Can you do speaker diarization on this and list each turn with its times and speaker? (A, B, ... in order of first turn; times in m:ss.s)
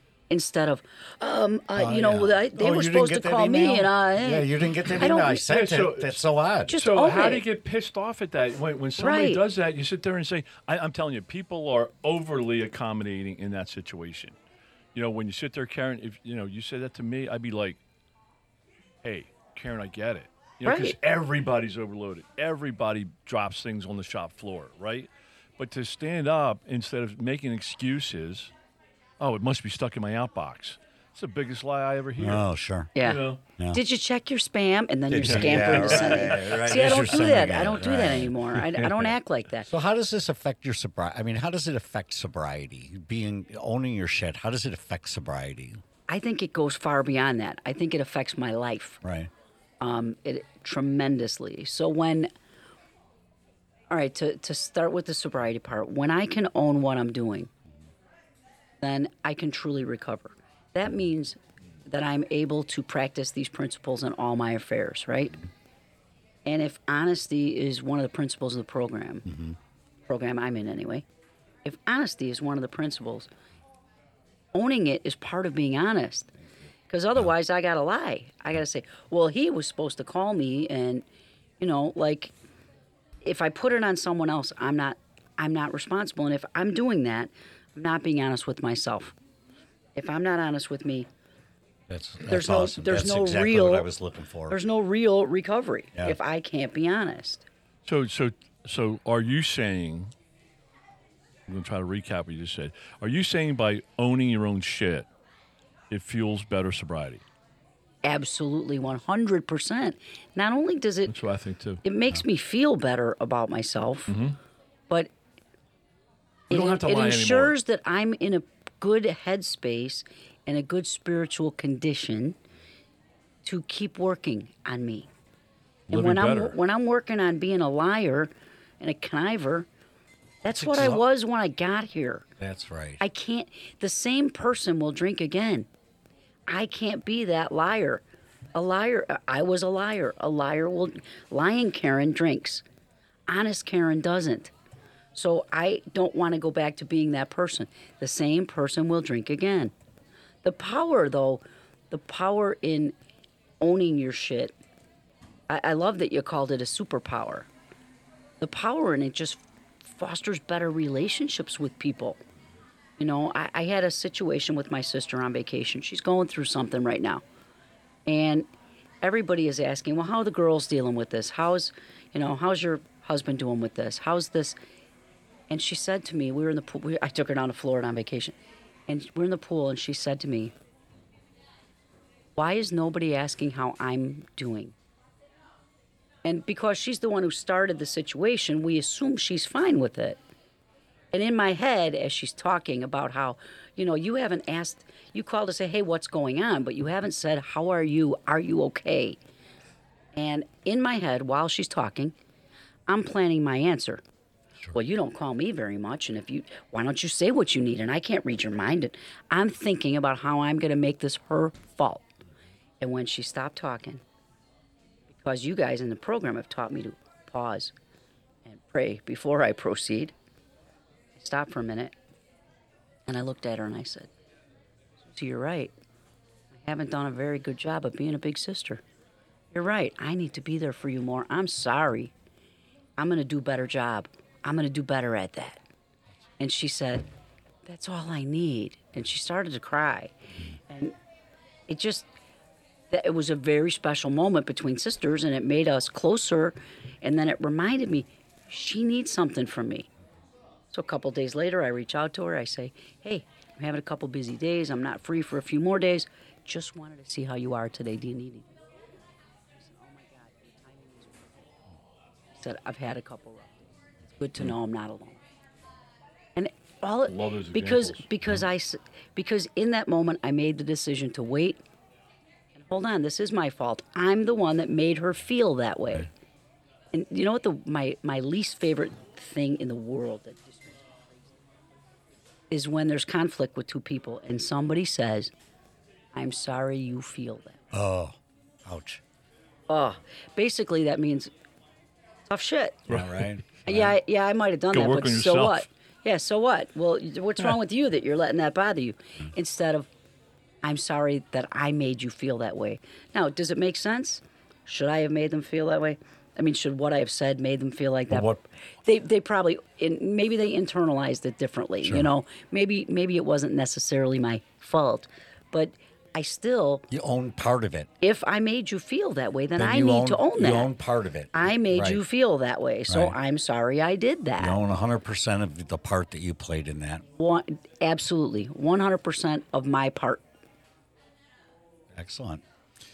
0:00.3-0:05.5 A
0:01.8-0:06.8 B
0:05.4-0:14.4 C
0:06.7-0:07.4 A
0:09.0-0:09.4 A
0:15.0-0:17.8 C
0:19.0-0:28.5 C
0:20.6-0:21.0 A
0:29.2-0:32.5 C
0:32.2-0:32.9 B
0:33.0-0:39.7 A
0:33.0-0:33.4 C
0:35.1-0:39.1 B
0:35.1-0:37.1 C
0:39.7-0:45.8 B
0:46.1-0:49.0 A
0:49.0-0:49.3 B
0:49.8-0:52.3 A
0:53.9-0:57.5 A
0:58.8-1:05.4 A
1:06.4-1:09.3 A
1:09.3-1:09.6 B
1:10.1-1:11.0 A
1:11.6-1:13.3 A
1:14.5-1:16.3 A
1:16.9-1:21.0 A
1:21.6-1:22.3 A
1:23.2-1:29.2 A
1:30.0-1:31.1 A
1:31.9-1:34.6 B
1:32.3-1:33.9 A
1:34.5-1:37.4 A
1:37.8-1:40.1 C
1:41.5-1:45.1 C
1:45.9-1:47.2 C
1:48.0-1:51.1 A
1:51.1-1:51.8 C
1:51.8-1:54.2 A
1:54.1-1:54.4 C
1:56.5-2:02.4 A
1:56.5-1:57.6 C
2:03.4-2:05.1 A
2:05.9-2:06.6 C
2:05.9-2:09.7 A
2:10.4-2:12.3 A
2:10.5-2:11.0 B
2:12.4-2:13.0 B
2:13.0-2:15.7 A
2:16.5-2:18.0 A
2:18.6-2:22.6 A
2:23.3-2:24.5 A
2:25.1-2:29.7 A
2:30.4-2:32.9 A
2:33.6-2:34.5 A
2:35.5-2:37.5 A
2:38.4-2:42.2 A
2:43.0-2:47.2 A
2:48.1-2:48.5 A
2:49.0-2:54.6 A
2:55.5-2:58.4 A
2:58.9-3:00.5 A
3:02.4-3:04.8 A
3:06.2-3:10.2 A
3:11.1-3:19.2 A
3:20.1-3:22.2 A
3:22.9-3:24.0 A
3:24.7-3:32.1 A
3:32.8-3:34.0 A
3:35.1-3:37.7 A
3:38.4-3:40.1 A
3:41.2-3:42.0 A
3:43.1-3:44.1 A
3:45.0-3:45.7 A
3:46.5-3:48.8 A
3:49.5-3:52.1 A
3:53.0-3:55.6 A
3:56.4-3:57.1 A
3:57.6-4:01.0 A
4:01.7-4:02.1 A
4:02.9-4:09.9 A
4:10.7-4:18.6 A
4:19.5-4:21.5 A
4:22.4-4:25.2 A
4:26.4-4:31.6 A
4:27.1-4:28.1 C
4:32.5-4:36.1 A
4:36.9-4:41.3 A
4:42.5-4:45.3 A
4:46.1-4:47.6 A
4:47.7-4:49.0 B
4:49.7-4:51.3 A
4:52.3-4:52.9 A
4:52.9-4:53.3 C
4:52.9-4:53.9 B
4:53.6-4:59.9 A
4:54.7-4:55.6 C
5:00.6-5:16.9 A
5:08.1-5:08.4 B
5:11.8-5:12.1 B
5:16.9-5:17.9 B
5:18.0-5:20.7 A
5:19.6-5:22.0 B
5:21.3-5:24.6 A
5:22.9-5:23.2 B
5:24.4-5:27.0 B
5:27.2-5:30.2 A
5:31.9-5:32.4 B